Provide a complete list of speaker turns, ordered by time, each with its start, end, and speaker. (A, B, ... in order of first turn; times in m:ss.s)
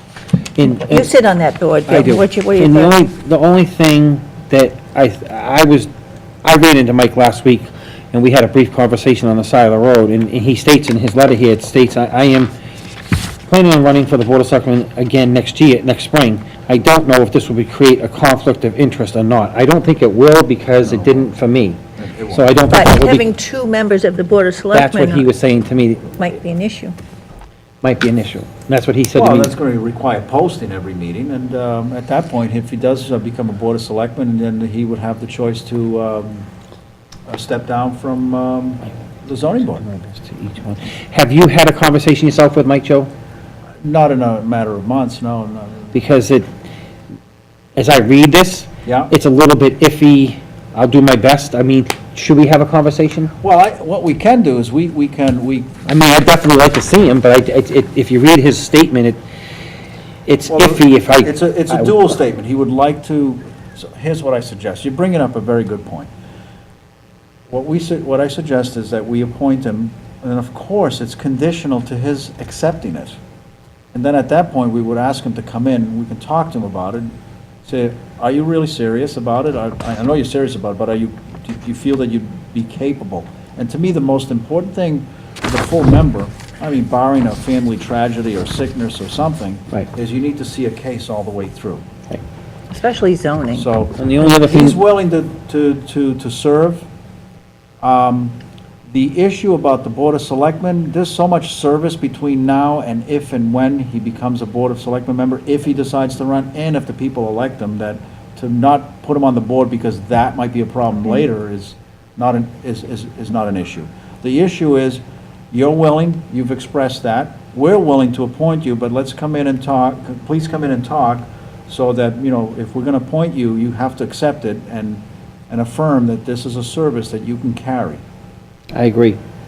0:00.6-0:01.1 A
0:00.6-0:03.0 B
0:01.9-0:05.9 A
0:06.4-0:12.5 A
0:13.5-0:21.8 A
0:20.8-0:21.3 C
0:22.0-0:22.6 C
0:22.3-0:23.2 A
0:22.7-0:25.3 B
0:24.7-0:26.1 A
0:26.2-0:26.9 B
0:27.8-0:29.5 A
0:29.1-0:36.5 C
0:37.3-0:39.8 C
0:39.8-0:43.1 A
0:43.8-0:46.0 C
0:45.9-0:46.5 A
0:47.8-0:53.3 A
0:48.8-0:49.1 C
0:53.4-0:55.7 C
0:55.8-0:59.2 A
1:00.2-1:02.1 A
1:00.5-1:06.1 C
1:07.5-1:13.1 C
1:13.9-1:17.1 C
1:17.6-1:31.8 C
1:32.7-1:33.7 B
1:33.5-1:36.9 C
1:34.0-1:34.8 A
1:37.8-1:38.4 C
1:38.9-1:55.0 C
1:55.5-2:08.0 C
2:08.7-2:09.2 A